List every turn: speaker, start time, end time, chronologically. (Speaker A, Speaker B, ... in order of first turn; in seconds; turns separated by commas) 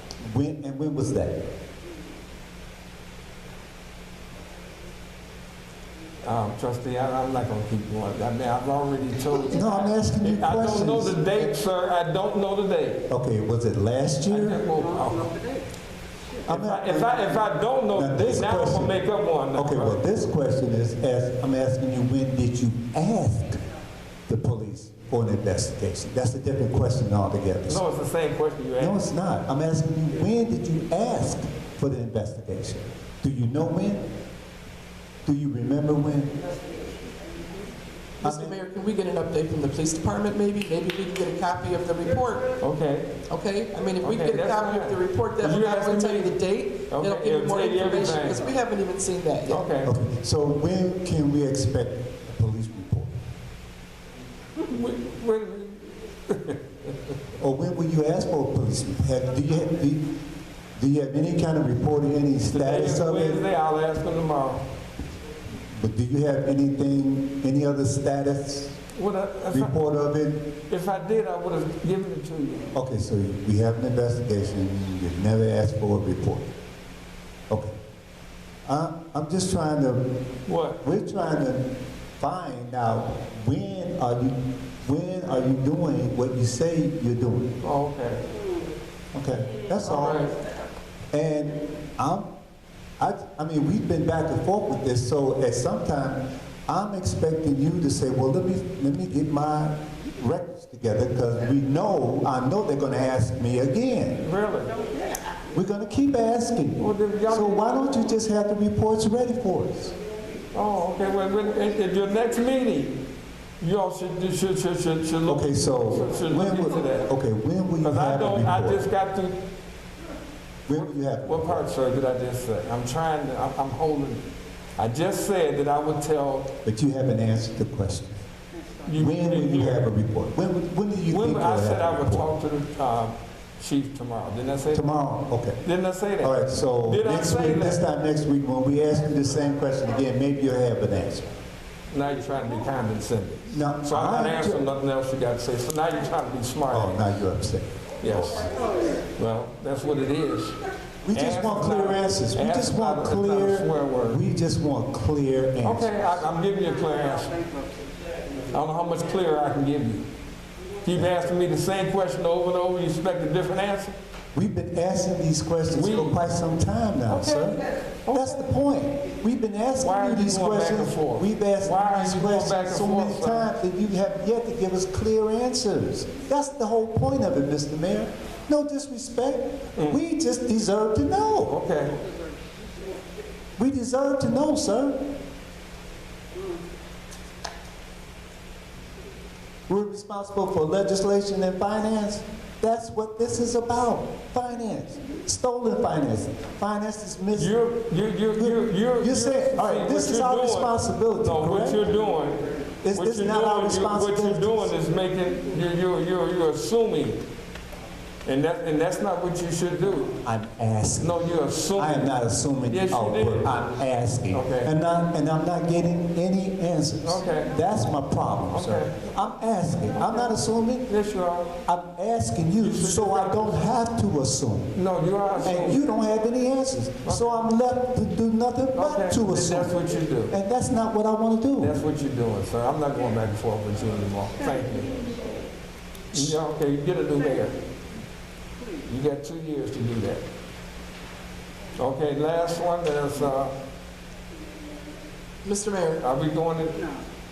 Speaker A: 0.2-1.4, Speaker B: 6.2-13.0, Speaker A: 9.5-11.4, Speaker A: 13.1-14.6, Speaker B: 14.3-15.3, Speaker A: 16.4-17.4, Speaker B: 16.5-20.0, Speaker A: 17.9-18.9, Speaker A: 19.5-23.6, Speaker A: 24.3-27.8, Speaker B: 27.7-29.0, Speaker A: 28.8-34.0, Speaker A: 35.2-36.3, Speaker A: 38.2-38.5, Speaker C: 38.2-42.5, Speaker B: 42.6-43.1, Speaker C: 43.3-49.6, Speaker B: 44.0-46.4, Speaker B: 46.9-48.4, Speaker B: 49.5-49.9, Speaker A: 49.8-53.1, Speaker B: 54.6-56.9, Speaker A: 57.4-60.0, Speaker A: 60.8-63.4, Speaker B: 62.5-64.6, Speaker A: 65.7-68.8, Speaker B: 68.9-69.8, Speaker A: 69.5-70.4, Speaker B: 70.7-72.7, Speaker A: 72.7-76.5, Speaker A: 77.5-77.8, Speaker A: 78.7-80.0, Speaker B: 80.5-80.8, Speaker A: 80.8-81.6, Speaker A: 82.2-87.5, Speaker B: 87.6-88.2, Speaker A: 89.1-90.2, Speaker B: 89.8-90.3, Speaker A: 91.1-92.2, Speaker A: 93.0-104.2, Speaker B: 104.2-104.7, Speaker A: 105.5-109.9, Speaker B: 106.8-108.1, Speaker B: 110.5-113.0, Speaker B: 113.6-117.1, Speaker A: 115.3-118.8, Speaker B: 117.8-119.4, Speaker A: 120.7-121.7, Speaker B: 120.7-124.2, Speaker B: 124.8-126.5, Speaker A: 126.6-128.2, Speaker B: 128.8-129.9, Speaker A: 129.0-132.3, Speaker B: 131.1-134.9, Speaker A: 134.7-135.6, Speaker B: 135.6-137.8, Speaker A: 136.2-141.3, Speaker B: 141.9-147.1, Speaker A: 143.5-144.6, Speaker A: 146.7-148.4, Speaker B: 148.0-148.5, Speaker B: 149.1-150.6, Speaker A: 151.0-155.9, Speaker B: 151.1-154.2, Speaker B: 155.6-157.4, Speaker B: 158.5-160.1, Speaker B: 160.8-163.9, Speaker A: 164.3-167.6, Speaker B: 165.7-166.2, Speaker B: 167.1-168.5, Speaker A: 168.1-181.5, Speaker B: 169.8-173.5, Speaker B: 181.5-182.0, Speaker A: 183.6-185.0, Speaker A: 189.7-197.6, Speaker B: 197.3-202.4, Speaker A: 198.3-201.9, Speaker A: 202.8-204.7, Speaker B: 202.9-207.2, Speaker B: 208.2-210.1, Speaker A: 210.2-211.1, Speaker B: 211.0-212.1, Speaker A: 211.8-220.9, Speaker B: 212.7-213.5, Speaker B: 214.3-214.7, Speaker B: 217.0-217.6, Speaker B: 218.5-219.0, Speaker B: 220.9-221.5, Speaker A: 221.7-224.7, Speaker B: 222.6-223.6, Speaker B: 224.7-225.8, Speaker A: 225.4-229.7, Speaker B: 227.0-227.5, Speaker B: 228.7-230.3, Speaker A: 230.3-231.8, Speaker B: 231.6-234.9, Speaker B: 236.1-237.6, Speaker B: 238.8-240.2, Speaker B: 241.8-243.6, Speaker C: 245.4-246.0, Speaker B: 246.0-246.8